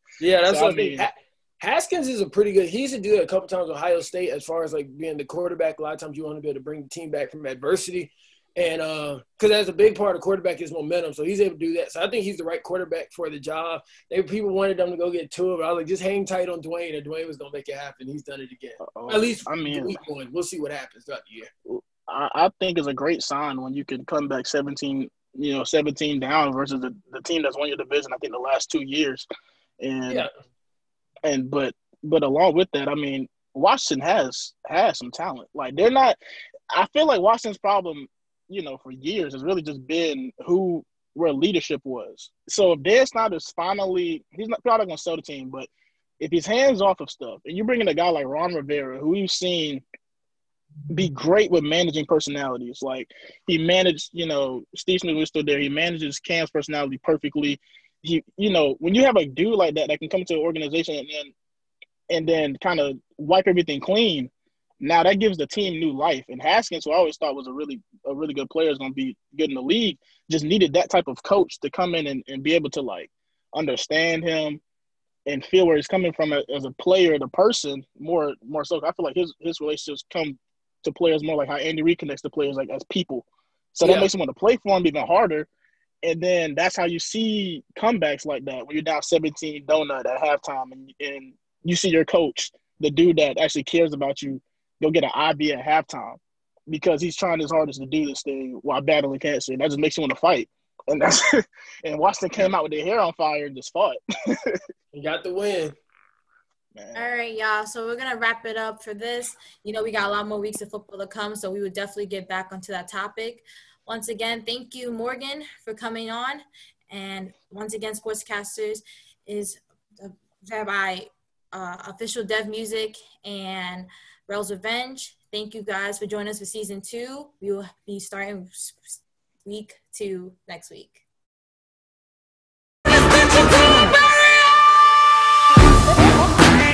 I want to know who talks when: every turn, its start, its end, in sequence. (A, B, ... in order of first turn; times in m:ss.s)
0:00.2-0:21.5 A
0:00.4-0:01.0 B
0:18.8-0:20.0 B
0:21.7-0:29.3 B
0:29.8-0:30.2 B
0:31.2-0:36.2 B
0:36.7-0:45.7 B
0:46.2-0:49.8 B
0:50.9-1:01.3 B
1:02.1-1:14.6 B
1:15.2-1:25.5 B
1:23.8-1:24.1 A
1:26.0-1:44.6 B
1:44.9-1:45.8 A
1:46.7-1:47.0 B
1:46.9-2:11.0 C